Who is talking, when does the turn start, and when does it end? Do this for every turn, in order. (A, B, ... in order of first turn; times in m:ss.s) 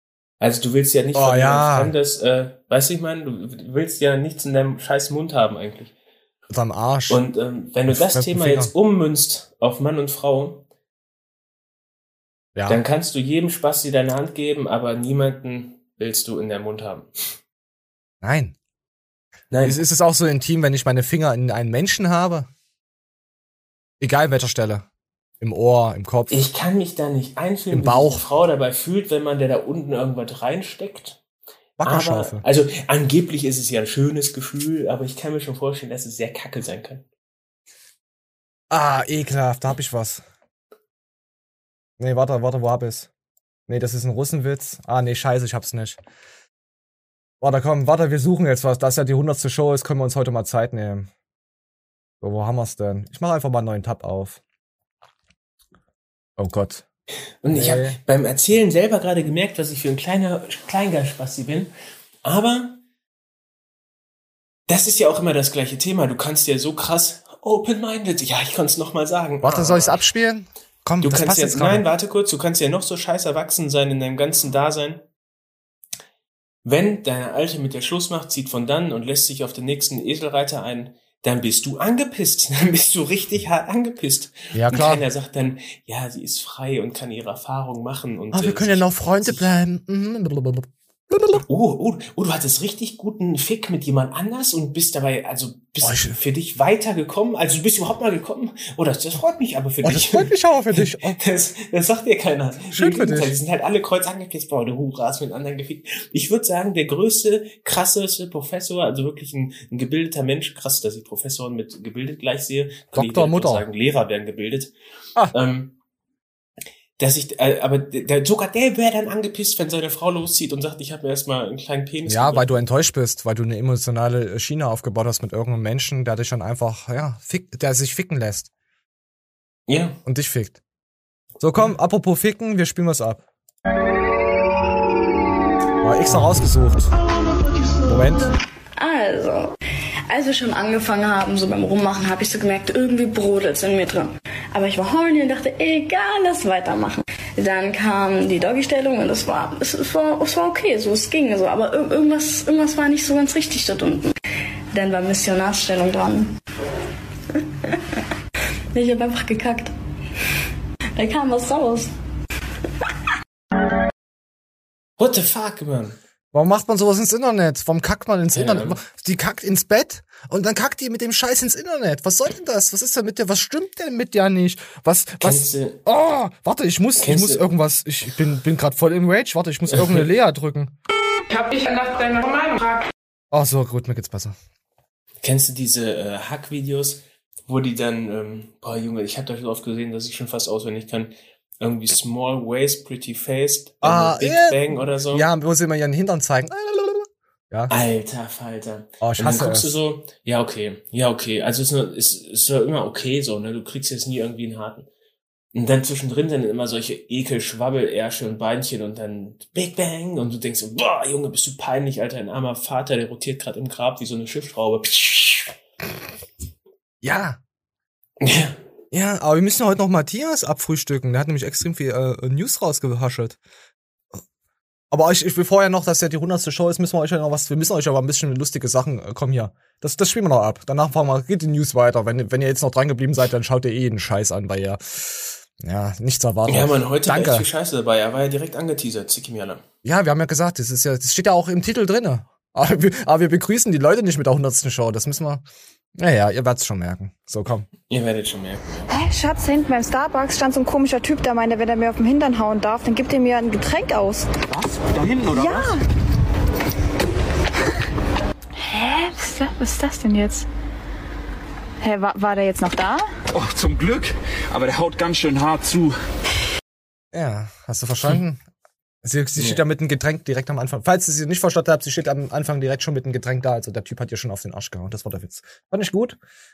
0:00.4-0:05.9 A
0:01.1-0:01.9 B
0:06.5-0:07.2 B
0:07.1-0:10.6 A
0:07.9-0:08.7 B
0:12.5-0:12.8 B
0:12.7-0:17.1 A
0:18.2-0:18.6 B
0:19.5-0:19.8 A
0:19.6-0:22.5 B
0:24.0-0:24.8 B
0:25.4-0:26.4 B
0:26.3-0:31.2 A
0:27.7-0:28.2 B
0:31.8-0:32.4 B
0:31.8-0:37.0 A
0:38.7-0:40.2 B
0:42.0-0:43.1 B
0:43.7-0:46.0 B
0:47.4-0:51.1 B
0:52.2-0:54.4 B
0:56.4-0:56.8 B
0:57.4-1:01.7 A
0:57.5-0:58.0 B
1:02.2-1:02.8 A
1:04.7-1:10.0 A
1:09.4-1:11.8 B
1:11.0-1:15.0 A
1:16.6-1:29.4 A
1:24.5-1:25.0 B
1:28.3-1:31.4 B
1:31.5-1:40.3 A
1:35.8-1:36.2 B
1:39.8-1:41.2 B
1:41.2-1:54.7 A
1:42.7-1:43.3 B
1:52.9-1:53.6 B
1:55.3-1:55.7 A
1:57.0-2:02.5 A
2:02.0-2:08.5 B
2:09.7-2:10.0 A
2:10.0-2:10.6 B
2:11.4-2:13.2 B
2:15.8-2:16.9 B
2:17.8-2:18.3 B
2:18.8-2:19.5 C
2:20.1-2:34.1 C
2:34.7-2:36.3 C
2:38.7-2:39.7 C
2:41.0-2:41.9 C
2:45.0-2:46.0 A
2:46.3-3:00.7 B
2:48.3-2:48.8 A
2:55.2-2:55.8 A
2:57.0-2:57.4 A
2:59.7-3:00.0 A
3:03.3-3:04.3 B
3:05.2-3:15.2 A
3:13.8-3:17.7 B
3:17.7-3:24.9 A
3:19.0-3:19.8 B
3:25.5-3:35.5 A
3:37.0-3:37.4 B
3:38.2-3:38.6 A
3:38.9-3:43.4 B
3:44.9-3:57.5 B
3:56.5-3:59.6 A
3:59.8-4:05.4 B
4:05.9-4:07.7 B
4:07.9-4:08.6 A
4:08.9-4:14.3 D
4:14.5-4:15.7 E
4:15.4-4:15.7 D
4:18.7-4:20.4 D
4:21.8-4:23.0 D
4:23.3-4:25.9 E
4:27.1-4:28.4 B
4:29.0-4:36.2 B